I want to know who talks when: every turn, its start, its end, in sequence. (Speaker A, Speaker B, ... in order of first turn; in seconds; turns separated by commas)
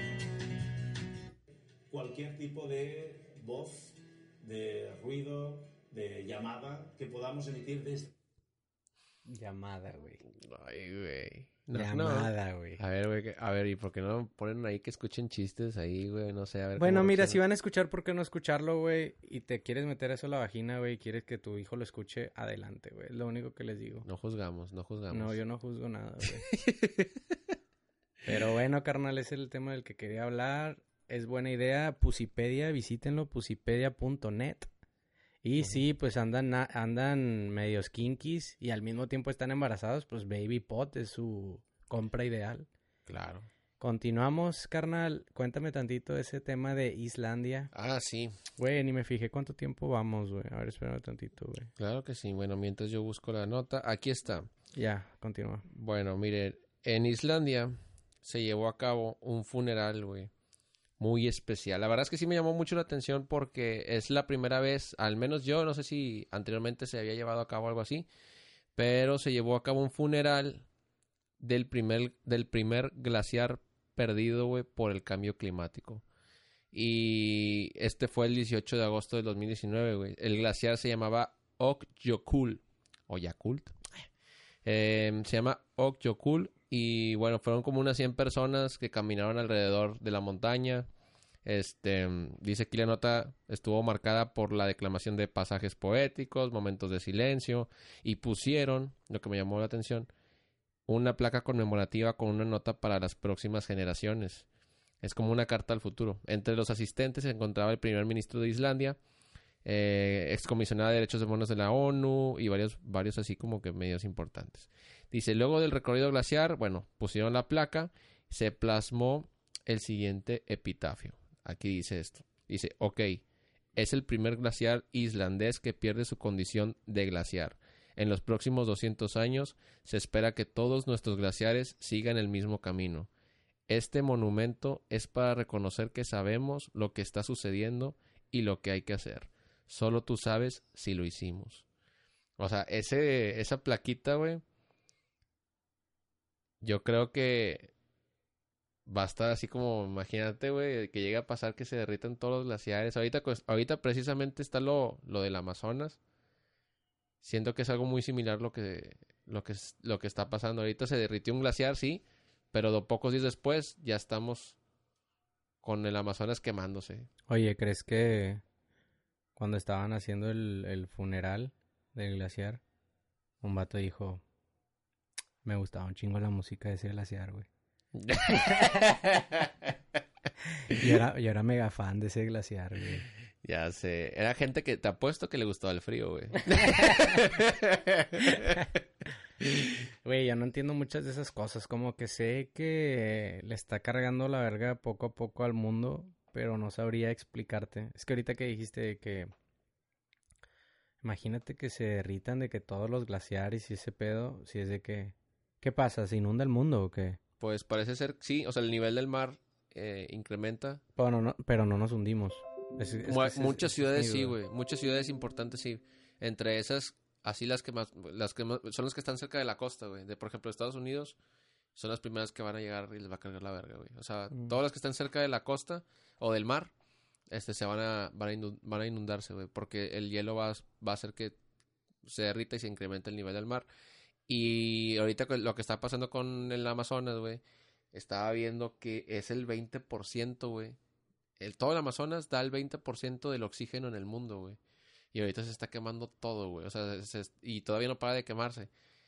Speaker A: 1.9-8.1, Speaker B: 9.3-10.2, Speaker C: 10.2-17.4, Speaker B: 11.7-12.8, Speaker B: 16.8-24.1, Speaker C: 24.1-25.4, Speaker B: 25.1-26.5, Speaker C: 26.2-27.4, Speaker B: 28.2-34.7, Speaker B: 35.4-42.7, Speaker C: 43.1-43.5, Speaker B: 43.8-47.7, Speaker C: 47.7-48.3, Speaker B: 48.6-51.7, Speaker C: 51.8-54.5, Speaker B: 54.7-55.6, Speaker C: 55.7-60.3, Speaker C: 61.0-68.1, Speaker C: 68.8-70.7, Speaker C: 71.4-76.0, Speaker C: 76.7-84.1, Speaker C: 84.7-90.9, Speaker C: 91.4-100.1, Speaker C: 100.9-104.5, Speaker C: 105.0-109.0, Speaker C: 109.6-123.2, Speaker C: 123.8-133.1, Speaker C: 133.7-141.7, Speaker C: 142.4-144.4, Speaker C: 146.6-147.7, Speaker C: 148.9-156.0, Speaker C: 157.2-164.6, Speaker C: 165.6-167.1, Speaker B: 167.3-168.4, Speaker B: 169.4-172.6, Speaker B: 173.4-174.2, Speaker B: 175.4-177.5, Speaker C: 177.9-179.7, Speaker B: 180.7-183.1, Speaker C: 183.4-188.7, Speaker B: 186.5-187.2, Speaker B: 188.3-188.6, Speaker B: 190.0-199.3, Speaker B: 201.0-207.2, Speaker C: 207.4-210.8, Speaker B: 211.0-214.3, Speaker C: 213.0-221.2, Speaker C: 221.8-226.7, Speaker C: 227.3-231.4, Speaker C: 232.0-233.7, Speaker C: 234.3-237.4, Speaker C: 237.9-240.8, Speaker C: 241.4-244.6, Speaker C: 245.1-248.7